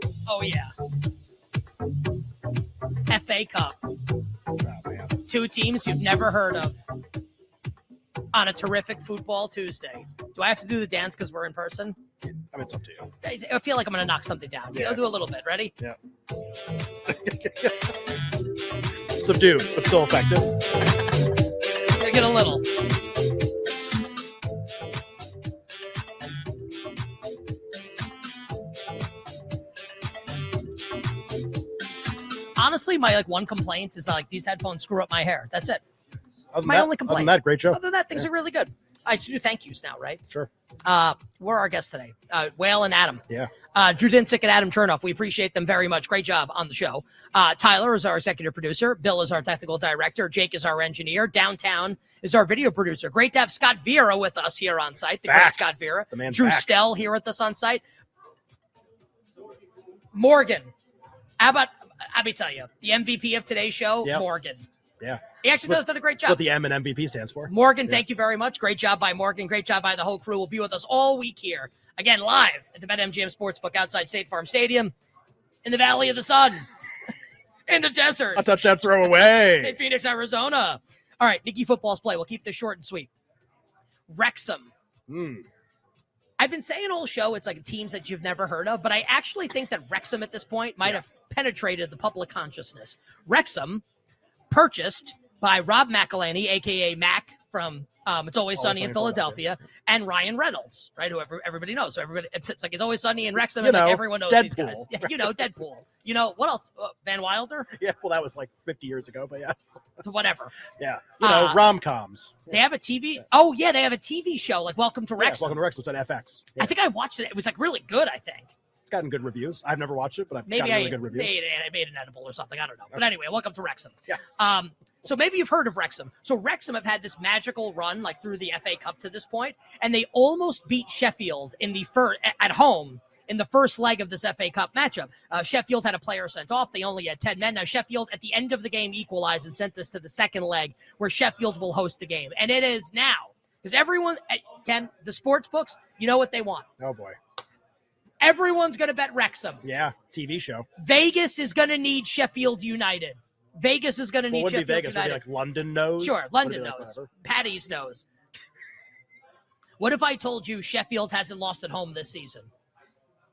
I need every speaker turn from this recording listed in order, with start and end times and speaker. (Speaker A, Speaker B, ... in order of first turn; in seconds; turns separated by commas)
Speaker A: 0.2-0.7, Speaker A: 3.1-3.8, Speaker B: 4.6-5.1, Speaker A: 5.2-6.8, Speaker A: 8.3-12.0, Speaker B: 12.4-13.1, Speaker A: 13.2-15.7, Speaker B: 14.7-15.0, Speaker B: 17.1-17.9, Speaker B: 19.1-20.5, Speaker A: 21.9-22.7, Speaker A: 32.5-35.8, Speaker B: 36.5-38.2, Speaker A: 36.6-40.2, Speaker A: 40.8-57.8, Speaker B: 55.3-56.7, Speaker A: 60.1-60.7, Speaker A: 61.4-64.7, Speaker B: 65.0-68.0, Speaker A: 65.4-66.4, Speaker A: 67.5-74.9, Speaker A: 75.6-76.7, Speaker A: 77.7-83.1, Speaker B: 78.3-79.8, Speaker A: 84.1-84.7, Speaker B: 85.1-85.4, Speaker A: 86.4-93.8, Speaker A: 94.5-107.7, Speaker B: 98.5-99.5, Speaker B: 103.5-105.3, Speaker B: 107.8-110.0, Speaker A: 110.0-110.5, Speaker B: 110.8-112.4, Speaker A: 111.2-111.6, Speaker A: 112.5-115.5, Speaker B: 115.2-116.7, Speaker A: 116.6-118.5, Speaker B: 118.9-121.4, Speaker A: 120.5-146.7, Speaker B: 146.8-147.2, Speaker A: 148.2-149.6, Speaker B: 149.6-150.7, Speaker A: 150.8-155.2, Speaker B: 154.3-157.1, Speaker A: 156.0-158.1, Speaker A: 159.8-162.5